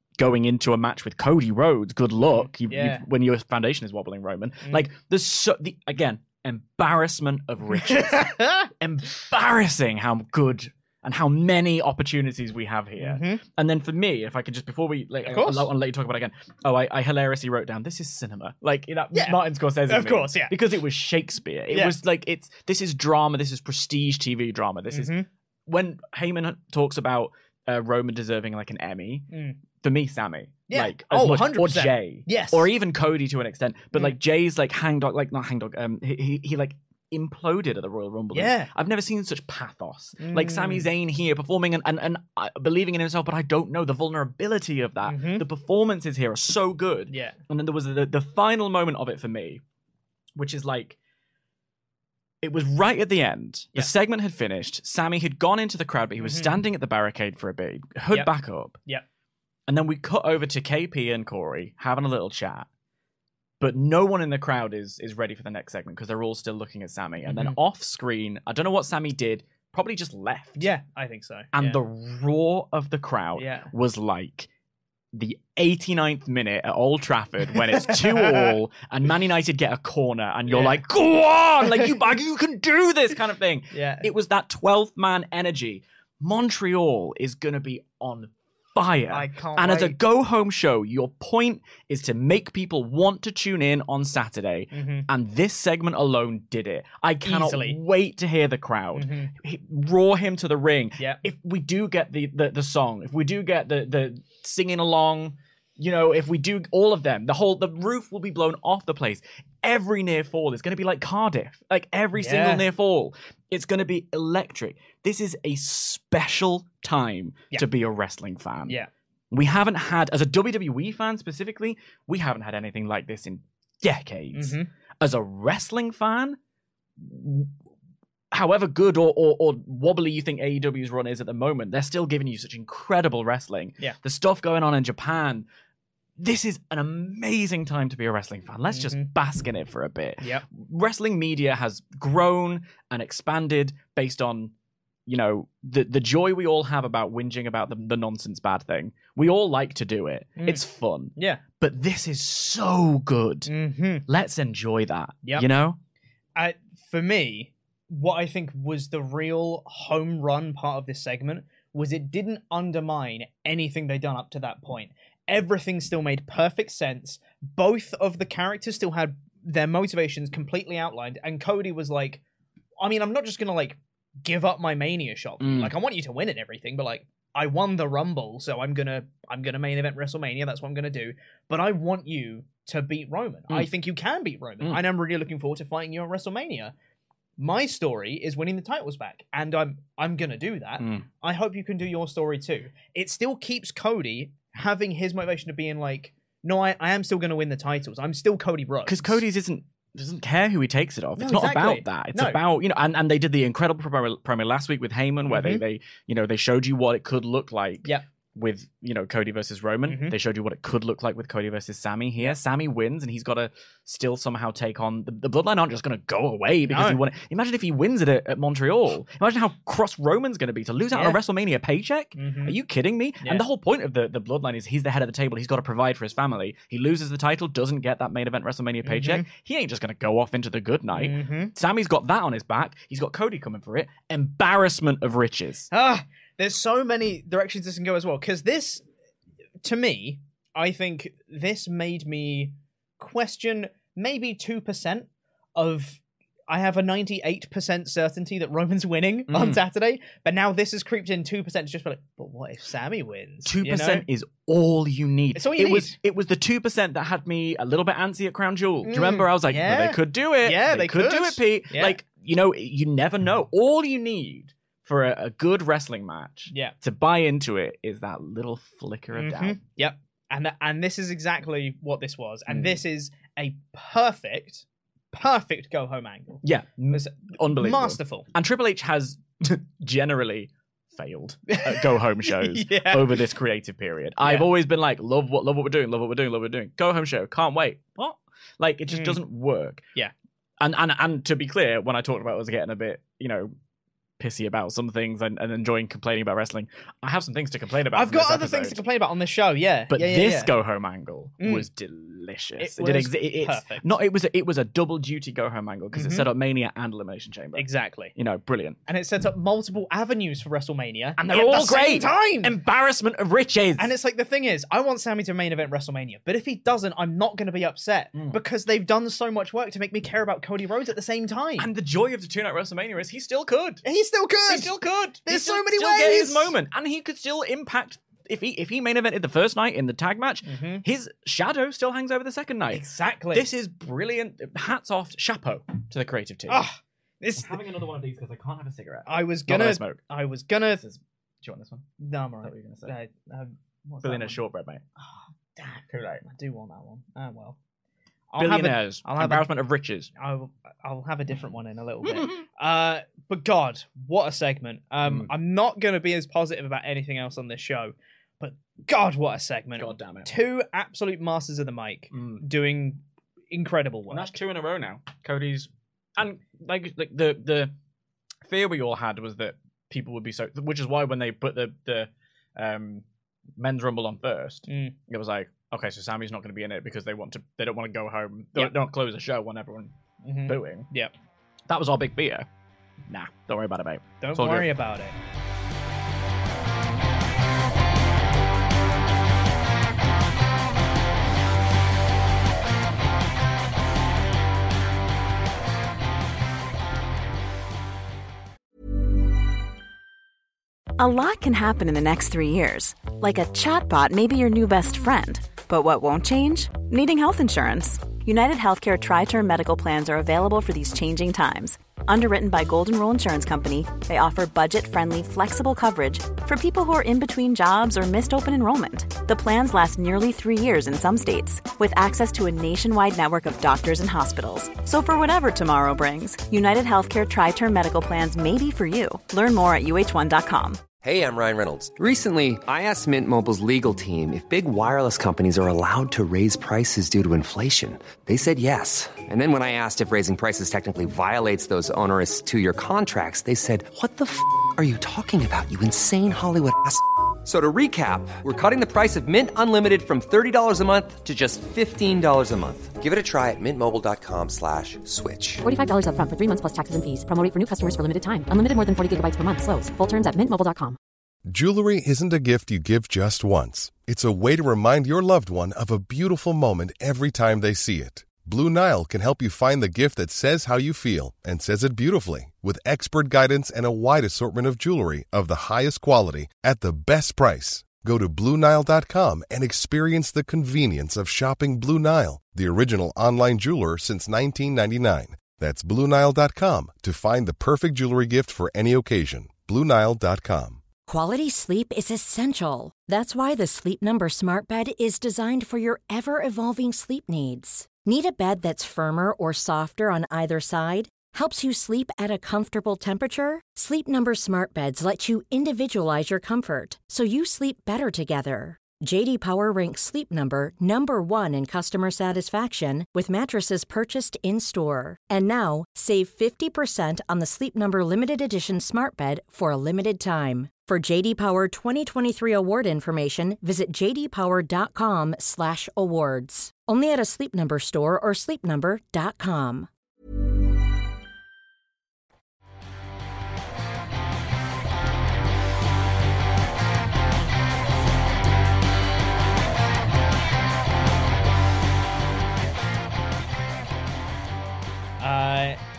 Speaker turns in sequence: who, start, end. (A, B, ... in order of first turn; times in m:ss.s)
0:00.2-0:25.1 A
0:02.2-0:03.0 B
0:07.8-0:08.7 B
0:13.0-0:13.4 B
0:15.2-0:15.7 B
0:19.1-0:20.6 B
0:21.7-0:22.0 B
0:24.9-0:25.3 B
0:25.7-0:49.6 A
0:29.3-0:29.6 B
0:30.7-0:32.7 B
0:38.3-0:38.7 B
0:40.2-0:40.9 B
0:45.0-0:45.4 B
0:47.1-0:47.4 B
0:50.3-0:51.0 A
0:52.4-0:58.8 A
0:56.2-0:56.6 B
0:59.7-1:02.7 A
1:03.6-1:10.7 A
1:07.2-1:07.6 B
1:10.6-1:11.8 B
1:11.5-1:14.5 A
1:13.4-1:13.7 B
1:15.1-1:58.8 A
1:17.6-1:18.6 B
1:20.5-1:20.8 B
1:21.6-1:22.0 B
1:23.7-1:24.0 B
1:29.1-1:30.0 B
1:34.7-1:35.1 B
1:37.2-1:37.8 B
1:38.9-1:39.3 B
1:52.1-1:52.6 B
1:59.3-2:06.4 A
2:04.3-2:04.7 B
2:07.0-2:07.5 A
2:08.3-2:15.5 A
2:16.2-2:24.5 A
2:18.7-2:19.1 B
2:25.0-2:33.5 A
2:30.4-2:30.6 B
2:31.2-2:31.4 B
2:33.5-2:34.0 B
2:34.1-2:35.8 A
2:36.4-2:52.2 B
2:52.8-3:06.7 B
2:55.4-2:55.7 A
3:07.4-3:19.2 B
3:10.8-3:11.0 A
3:18.8-3:55.7 A
3:21.2-3:22.4 B
3:25.3-3:25.6 B
3:29.9-3:30.2 B
3:36.7-3:37.0 B
3:40.9-3:41.2 B
3:42.2-3:42.6 B
3:48.8-3:49.2 B
3:50.9-3:51.5 B
3:55.7-3:58.8 B
3:59.6-4:14.0 B
4:09.3-4:09.6 A
4:13.4-4:29.6 A
4:15.3-4:16.0 B
4:18.8-4:22.0 B
4:26.5-4:26.8 B
4:29.1-4:38.3 B
4:32.5-4:32.8 A
4:36.4-4:49.8 A
4:41.5-4:43.2 B
4:48.9-4:49.2 B
4:50.6-4:53.5 A
4:54.2-4:58.8 A
4:57.9-5:00.5 B
4:59.9-5:08.8 A
5:01.4-5:01.7 B
5:02.6-5:03.9 B
5:05.9-5:06.3 B
5:07.6-5:08.1 B
5:08.9-5:12.5 B
5:11.2-5:13.9 A
5:13.8-5:21.7 B
5:21.6-5:23.8 A
5:23.8-5:24.7 B
5:24.5-5:36.6 A
5:25.2-5:26.5 B
5:30.4-5:30.8 B
5:32.7-5:33.4 B
5:36.5-5:37.6 B
5:37.4-5:40.0 A
5:39.1-5:40.8 B
5:40.7-5:41.8 A
5:42.0-5:44.4 B
5:42.4-5:42.9 A
5:44.0-5:44.8 A
5:45.0-5:47.6 B
5:45.9-5:46.2 A
5:48.3-5:49.5 B
5:48.4-5:50.1 A
5:50.2-6:04.4 B
5:52.0-5:52.4 A
5:55.0-5:55.3 A
5:59.8-6:00.3 A
6:02.1-6:02.4 A
6:04.1-6:07.7 A
6:08.4-6:13.0 A
6:13.6-6:19.9 A
6:14.7-6:14.9 B
6:20.2-6:21.1 B
6:20.4-6:20.9 A
6:21.7-6:22.4 A
6:23.1-6:24.7 A
6:24.2-6:25.1 B
6:41.0-7:10.9 C
7:11.0-7:35.6 D
7:35.6-7:41.0 E
7:41.5-8:10.8 F
8:11.1-8:49.9 G
9:05.2-9:05.8 B